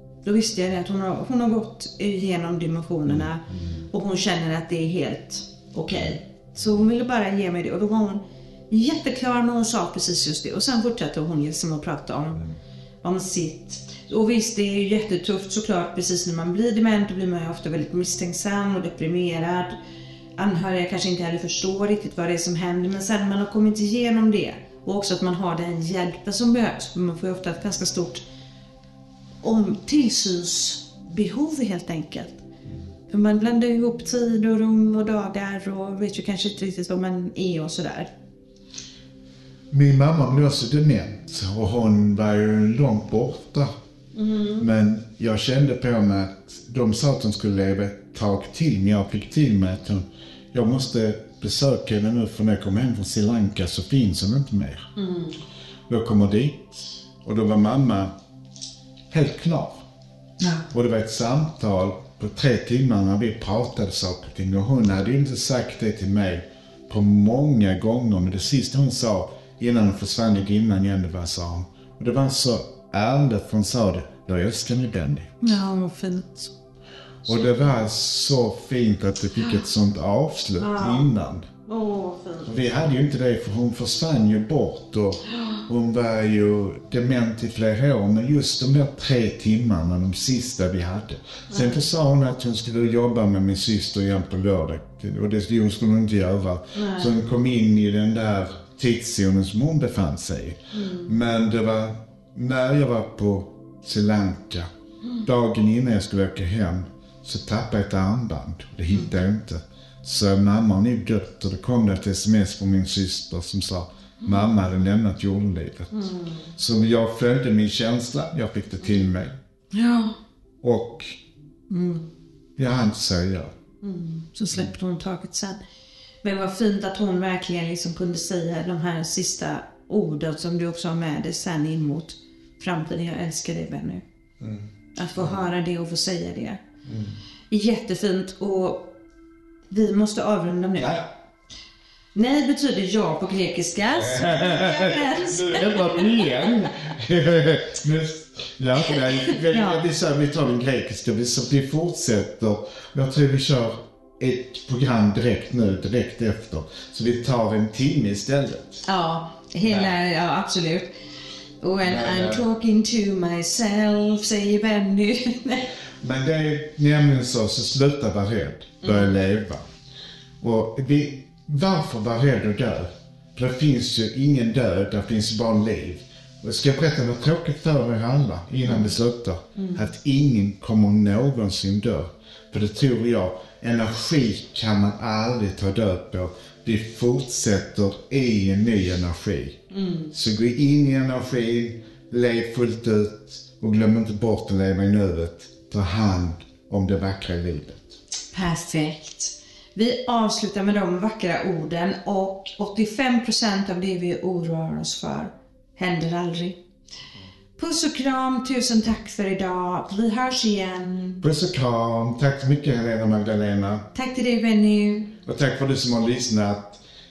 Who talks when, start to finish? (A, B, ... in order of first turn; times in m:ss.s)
0:00.2-0:12.5 A
0:13.0-0:19.8 A
0:20.4-0:28.2 A
0:29.4-0:32.4 A
0:33.1-0:38.1 A
0:39.7-0:43.7 B
0:44.2-0:44.7 A
0:44.6-0:54.9 B
0:55.0-0:55.4 A
0:55.9-0:58.1 B
0:59.1-0:59.8 B
1:00.7-1:15.3 B
1:15.4-1:16.5 A
1:17.2-1:21.5 B
1:20.6-1:21.1 A
1:21.7-1:22.5 A
1:22.4-1:44.7 B
1:31.5-1:31.8 A
1:36.7-1:37.1 A
1:40.7-1:41.1 A
1:45.2-1:59.4 B
1:55.9-1:56.5 A
1:59.7-2:00.2 A
2:00.6-2:01.2 B
2:01.7-2:02.1 A
2:02.6-2:03.5 B
2:03.8-2:05.6 A
2:06.2-2:14.0 A
2:14.4-2:14.7 B
2:15.0-2:16.6 A
2:16.9-2:17.2 B
2:17.5-2:19.0 A
2:19.7-2:21.0 A
2:20.8-2:21.0 B
2:22.2-2:26.5 A
2:24.0-2:38.8 B
2:29.3-2:29.8 A
2:38.8-2:40.9 A
2:39.6-2:39.9 B
2:41.6-2:45.7 A
2:41.8-2:42.4 B
2:46.0-2:49.7 B
2:48.8-2:49.1 A
2:50.4-3:18.0 B
2:58.7-2:58.9 A
2:59.6-2:59.8 A
3:09.7-3:10.1 A
3:18.3-3:26.6 A
3:27.6-3:31.2 A
3:31.2-3:33.9 B
3:33.9-3:35.1 A
3:35.2-3:36.8 B